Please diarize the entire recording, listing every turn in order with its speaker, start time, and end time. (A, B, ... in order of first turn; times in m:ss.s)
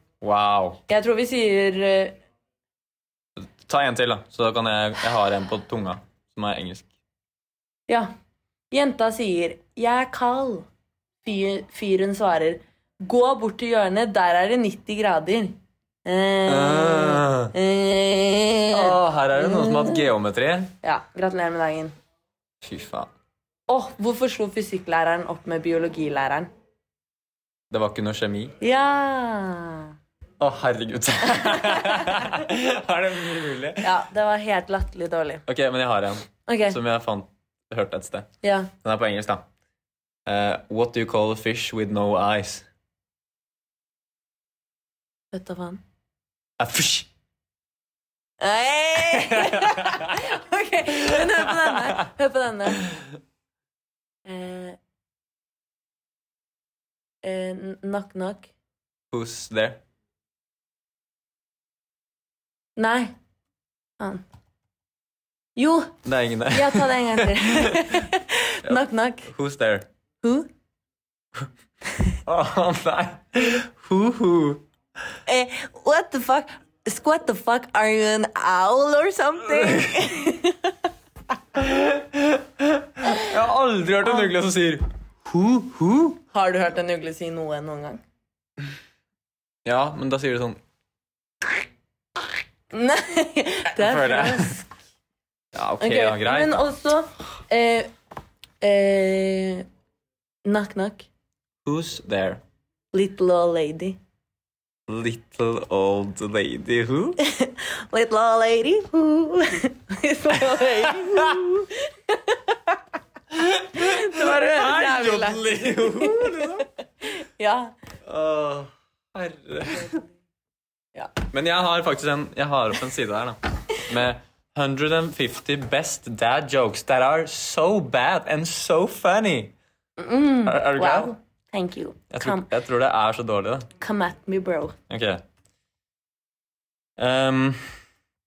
0:00.2-0:00.8 A
0:00.9-0:02.2 B
0:03.4-0:06.9 A
0:08.7-0:10.7 B
0:11.2-0:20.1 B
0:16.5-0:17.5 A
0:18.7-0:20.7 A
0:20.8-0:22.0 B
0:22.6-0:23.1 A
0:23.7-0:26.5 B
0:27.7-0:28.6 A
0:28.6-0:30.0 B
0:30.4-0:34.0 A
0:31.4-0:32.2 B
0:33.8-0:35.4 B
0:35.5-0:38.3 A
0:36.5-0:36.8 B
0:38.4-0:38.7 B
0:38.8-0:39.5 A
0:40.3-0:42.6 A
0:45.3-0:45.8 B
0:46.6-0:47.1 A
0:48.4-0:52.9 B
0:49.1-0:50.0 A
0:54.2-0:54.8 B
0:57.2-0:58.5 B
0:59.1-0:59.8 A
1:02.8-1:03.2 B
1:05.6-1:06.0 B
1:06.0-1:08.0 A
1:06.5-1:09.3 B
1:08.6-1:09.9 A
1:10.2-1:10.5 B
1:12.3-1:15.2 A
1:15.3-1:20.7 B
1:19.6-1:19.9 A
1:21.6-1:26.2 A
1:26.3-1:28.0 B
1:29.6-1:30.6 A
1:32.7-1:34.6 B
1:33.7-1:34.6 A
1:35.5-1:36.6 A
1:35.8-1:37.9 B
1:38.6-1:39.6 B
1:40.4-1:41.1 B
1:41.6-1:42.4 A
1:42.9-1:44.0 B
1:44.9-1:47.2 A
1:47.2-1:52.8 B
1:50.4-1:51.4 A
1:53.3-1:56.7 A
1:53.8-1:56.6 B
1:57.2-1:57.8 B
1:58.0-2:00.0 A
1:59.7-2:00.0 B
2:01.3-2:03.4 A
2:03.9-2:09.6 A
2:10.0-2:12.5 B
2:10.4-2:11.1 A
2:12.1-2:13.7 A
2:13.8-2:14.8 B
2:14.9-2:15.2 A
2:17.0-2:17.8 A